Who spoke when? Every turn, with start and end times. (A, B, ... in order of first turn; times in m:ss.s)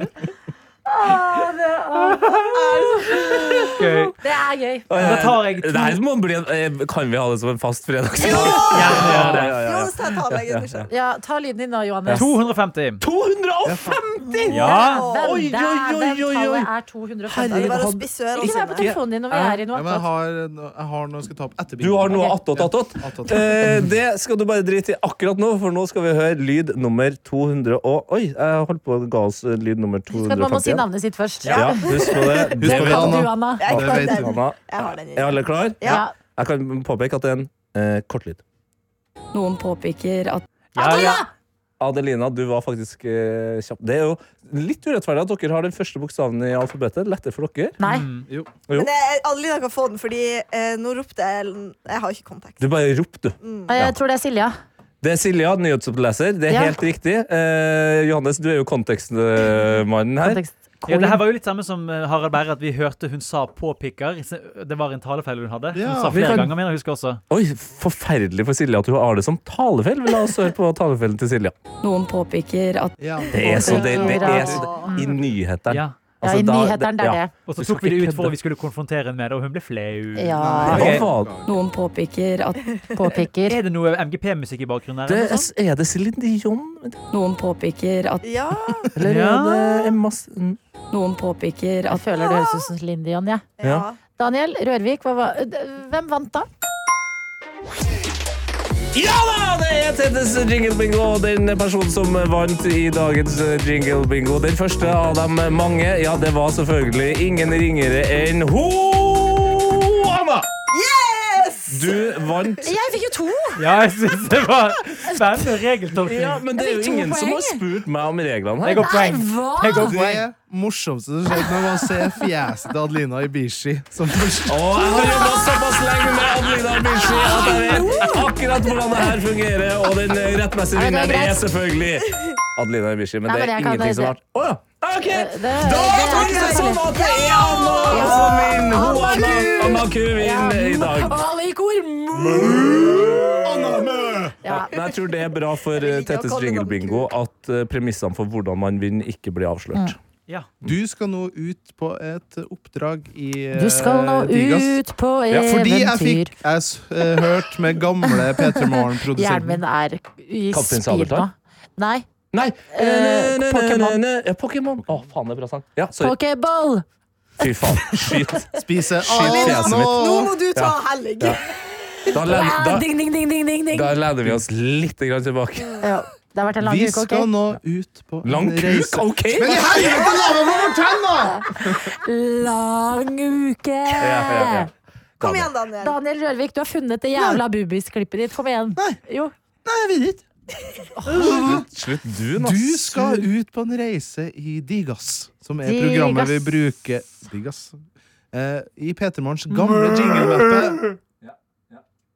0:00.9-0:05.2 A
0:02.5-0:03.7 B
0:03.6-0:03.8 C
0:03.7-0:04.2 D
0:04.9-0:10.9 C
0:05.0-0:06.0 D
0:08.2-0:10.9 B
0:08.6-0:09.6 D
0:10.9-0:12.4 A
0:12.1-0:13.0 D
0:13.0-0:16.7 C
0:13.6-0:14.0 E
0:14.2-0:15.4 B
0:14.5-0:15.0 D
0:14.6-0:20.1 A
0:17.3-0:19.6 C
0:17.4-0:18.9 B
0:19.7-0:23.6 E
0:21.8-0:30.8 C
0:22.1-0:22.4 A
0:30.1-0:33.6 A
0:31.4-0:32.6 B
0:31.4-0:38.4 C
0:32.6-0:34.3 E
0:33.6-0:36.0 B
0:35.8-0:36.1 A
0:39.3-0:40.4 F
0:40.7-0:41.2 D
0:40.8-0:41.3 A
0:41.8-0:47.8 C
0:47.8-0:48.0 A
0:47.8-0:48.3 D
0:48.7-0:52.7 B
0:52.6-0:53.9 C
0:53.4-0:53.7 B
0:53.7-0:54.5 A
0:55.0-1:00.4 C
0:56.5-0:56.8 A
1:00.2-1:01.2 A
1:00.9-1:07.2 D
1:05.7-1:06.4 E
1:06.1-1:06.5 C
1:07.3-1:11.5 C
1:11.8-1:13.0 F
1:13.0-1:14.6 E
1:13.3-1:18.3 C
1:13.5-1:15.1 A
1:13.5-1:15.2 B
1:15.7-1:16.0 D
1:16.2-1:17.3 A
1:17.4-1:21.0 D
1:20.2-1:20.8 A
1:20.4-1:21.4 E
1:20.7-1:21.4 C
1:21.4-1:22.6 F
1:22.9-1:23.6 A
1:23.4-1:25.5 D
1:25.1-1:27.0 C
1:27.1-1:28.3 F
1:28.2-1:28.9 B
1:28.9-1:30.6 C
1:29.0-1:29.7 D
1:30.9-1:32.0 F
1:31.9-1:33.5 A
1:32.2-1:32.6 B
1:33.6-1:34.0 B
1:33.6-1:33.9 C
1:34.2-1:36.5 A
1:38.9-1:50.5 C
1:50.7-1:52.3 B
1:51.7-1:52.7 C
1:52.6-1:53.6 A
1:53.6-1:56.4 D
1:56.0-1:58.9 C
1:56.5-1:57.6 A
1:58.6-2:00.2 D
1:58.8-2:00.0 A
1:59.8-2:05.3 E
2:04.5-2:21.2 C
2:07.0-2:08.3 A
2:10.7-2:11.4 A
2:13.2-2:14.1 A
2:15.1-2:16.8 A
2:16.0-2:19.7 B
2:17.9-2:23.2 A
2:22.3-2:24.4 E
2:22.5-2:23.3 C
2:24.4-2:24.7 A
2:24.5-2:30.0 C
2:25.7-2:27.1 B
2:30.6-2:34.8 E
2:33.5-2:36.3 A
2:35.3-2:39.6 E
2:38.1-2:42.0 A
2:40.5-2:41.3 C
2:42.3-2:46.2 C
2:42.7-2:44.0 A
2:46.0-2:46.8 A
2:47.4-2:50.0 C
2:47.4-2:48.2 A
2:48.5-2:50.4 E
2:49.2-2:51.5 B
2:50.5-2:51.4 C
2:52.1-2:52.9 C
2:52.1-2:54.0 A
2:53.7-2:55.8 C
2:55.6-2:55.9 B
2:55.8-2:57.3 A
2:56.6-3:01.9 E
2:58.2-2:59.9 C
2:59.9-3:00.3 B
3:01.6-3:04.7 A
3:04.0-3:05.5 C
3:05.2-3:06.0 B
3:05.8-3:09.3 A
3:09.6-3:10.2 E
3:11.0-3:11.6 A
3:11.1-3:11.6 E
3:11.2-3:13.2 C
3:12.4-3:20.8 E
3:15.6-3:16.6 A
3:21.2-3:21.8 C